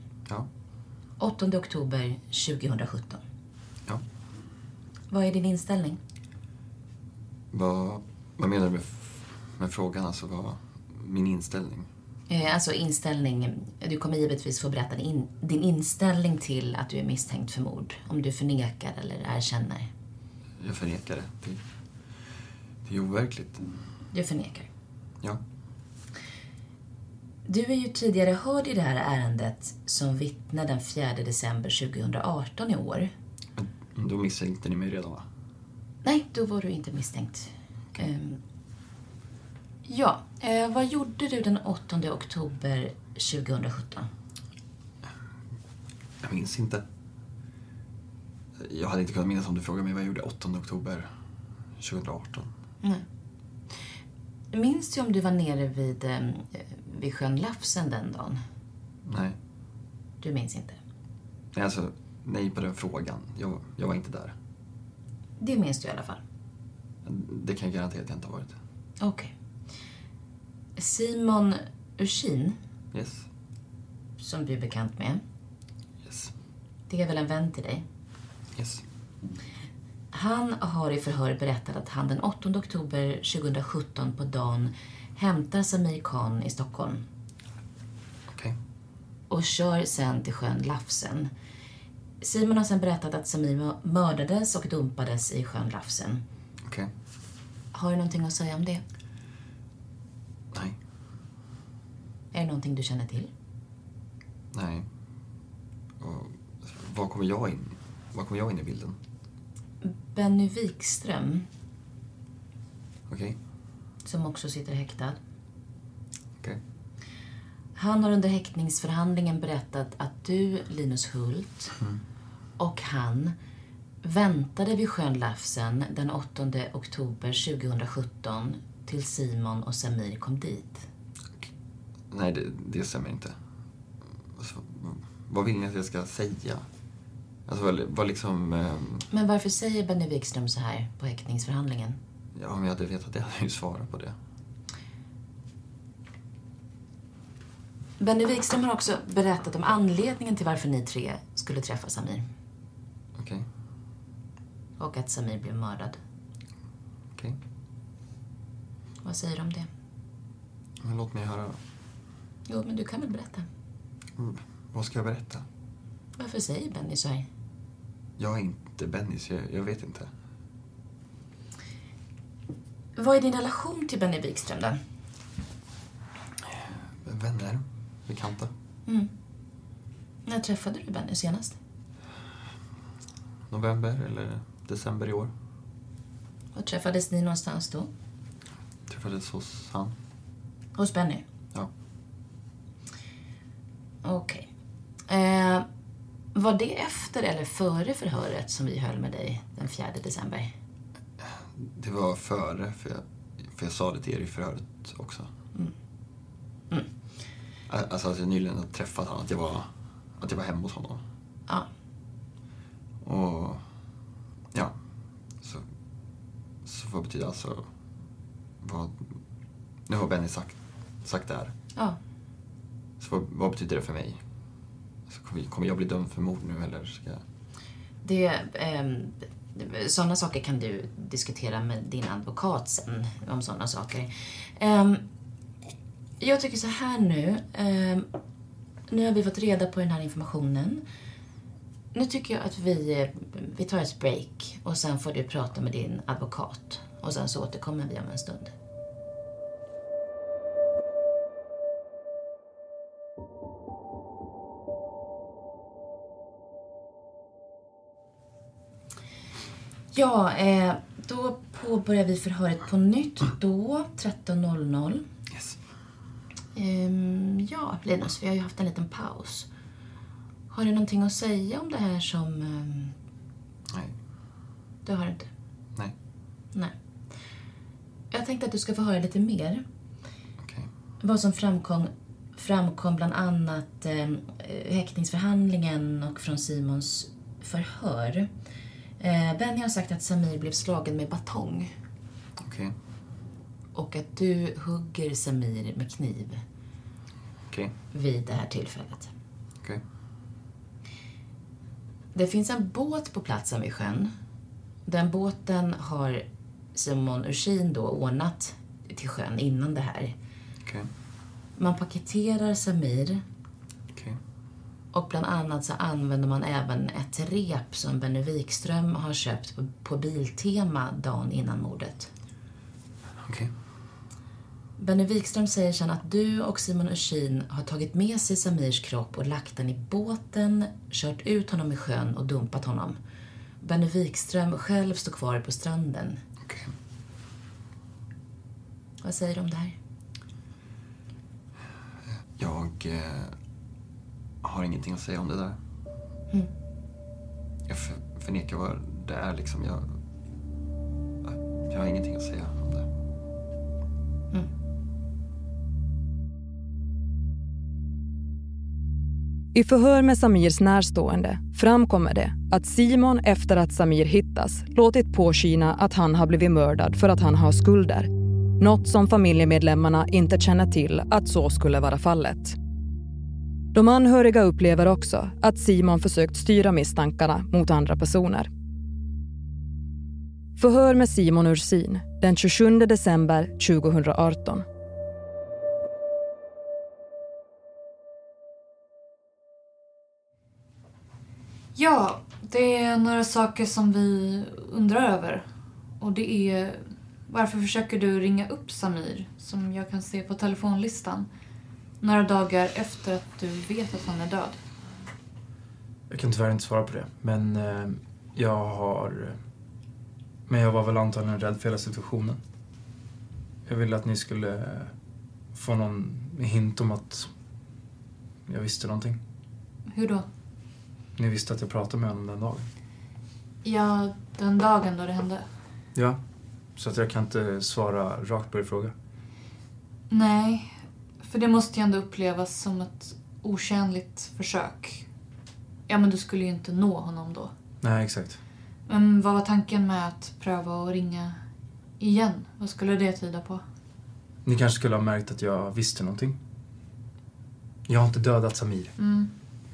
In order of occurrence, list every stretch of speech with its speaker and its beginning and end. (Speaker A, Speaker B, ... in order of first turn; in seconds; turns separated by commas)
Speaker A: 1.2-3.2, Speaker A: 5.1-6.0, Speaker B: 7.5-11.9, Speaker A: 12.3-19.9, Speaker B: 20.6-21.6, Speaker B: 22.8-23.6, Speaker A: 24.1-24.7, Speaker A: 27.4-33.1, Speaker B: 33.6-35.2, Speaker A: 36.0-38.4, Speaker A: 39.9-44.1, Speaker B: 46.2-46.8, Speaker B: 48.6-51.1, Speaker B: 51.8-52.5, Speaker A: 54.5-58.4, Speaker B: 59.0-59.4, Speaker A: 60.2-60.8, Speaker B: 61.5-64.3, Speaker A: 65.4-66.2, Speaker B: 67.0-68.6, Speaker A: 69.0-69.3, Speaker A: 70.8-72.6, Speaker B: 72.9-73.3, Speaker A: 74.2-75.2, Speaker B: 76.0-76.3, Speaker A: 76.9-77.8, Speaker B: 78.5-78.8, Speaker A: 80.1-87.0, Speaker B: 88.3-88.6, Speaker A: 89.3-91.3, Speaker A: 92.2-96.2, Speaker B: 96.6-96.9, Speaker A: 97.7-98.8, Speaker A: 102.3-103.3, Speaker B: 104.5-104.9, Speaker B: 106.0-109.0, Speaker A: 109.8-111.5, Speaker B: 113.1-113.4, Speaker A: 114.0-115.2, Speaker A: 117.7-121.7, Speaker A: 122.6-123.3, Speaker A: 124.0-130.8, Speaker B: 132.1-133.3, Speaker B: 134.3-136.6, Speaker B: 137.5-139.0, Speaker A: 139.1-142.0, Speaker B: 142.3-144.2, Speaker A: 148.0-152.3, Speaker B: 153.2-153.4, Speaker A: 154.8-156.0, Speaker A: 159.0-159.7, Speaker B: 160.8-161.6, Speaker A: 162.5-163.5, Speaker B: 164.2-165.4, Speaker A: 166.2-167.3, Speaker B: 168.2-170.1, Speaker A: 172.9-174.8, Speaker B: 177.0-178.5, Speaker A: 180.2-181.6, Speaker B: 183.5-185.3, Speaker A: 186.5-187.9, Speaker B: 188.9-189.9, Speaker A: 190.8-191.2, Speaker A: 194.0-194.5, Speaker A: 195.1-195.7, Speaker A: 196.3-200.5, Speaker B: 201.2-205.3, Speaker B: 207.7-211.0, Speaker B: 213.0-213.6, Speaker B: 215.4-215.6, Speaker B: 216.6-217.7, Speaker B: 218.6-219.1, Speaker B: 219.9-221.5, Speaker B: 223.0-224.2, Speaker B: 225.1-227.2, Speaker A: 228.0-235.1, Speaker A: 236.2-238.1, Speaker A: 238.9-240.8, Speaker A: 241.9-248.5, Speaker A: 259.9-265.1, Speaker B: 265.3-265.6, Speaker A: 266.5-269.5, Speaker A: 270.5-272.9, Speaker B: 273.7-273.9, Speaker A: 274.9-275.3, Speaker A: 278.1-279.6, Speaker B: 280.4-280.7, Speaker A: 281.0-288.3, Speaker A: 289.0-291.7, Speaker B: 292.4-292.7, Speaker A: 293.7-296.4, Speaker A: 297.9-299.1, Speaker A: 302.1-304.1, Speaker A: 304.9-310.1, Speaker B: 310.6-310.9, Speaker A: 311.6-313.2, Speaker B: 313.9-314.2, Speaker A: 314.9-322.1, Speaker B: 323.2-323.5, Speaker A: 324.8-333.0, Speaker A: 333.6-336.2, Speaker B: 336.4-336.7, Speaker A: 339.0-339.8, Speaker B: 342.4-343.3, Speaker B: 344.4-345.6, Speaker B: 347.7-349.9, Speaker B: 351.2-352.9, Speaker C: 359.5-372.6, Speaker C: 373.7-378.5, Speaker C: 380.6-384.6, Speaker D: 391.7-395.4, Speaker D: 396.0-401.3, Speaker D: 402.0-404.6, Speaker E: 406.1-409.4, Speaker E: 410.5-412.4, Speaker E: 413.6-414.9, Speaker E: 415.5-417.3, Speaker E: 418.5-419.2, Speaker D: 419.9-420.2, Speaker E: 421.1-422.7, Speaker D: 423.6-425.4, Speaker E: 426.8-428.9, Speaker D: 430.1-435.1, Speaker D: 435.9-437.5, Speaker E: 437.8-438.4, Speaker D: 438.9-441.4, Speaker D: 442.0-443.6, Speaker E: 444.4-446.4, Speaker E: 447.9-448.9, Speaker D: 449.0-449.3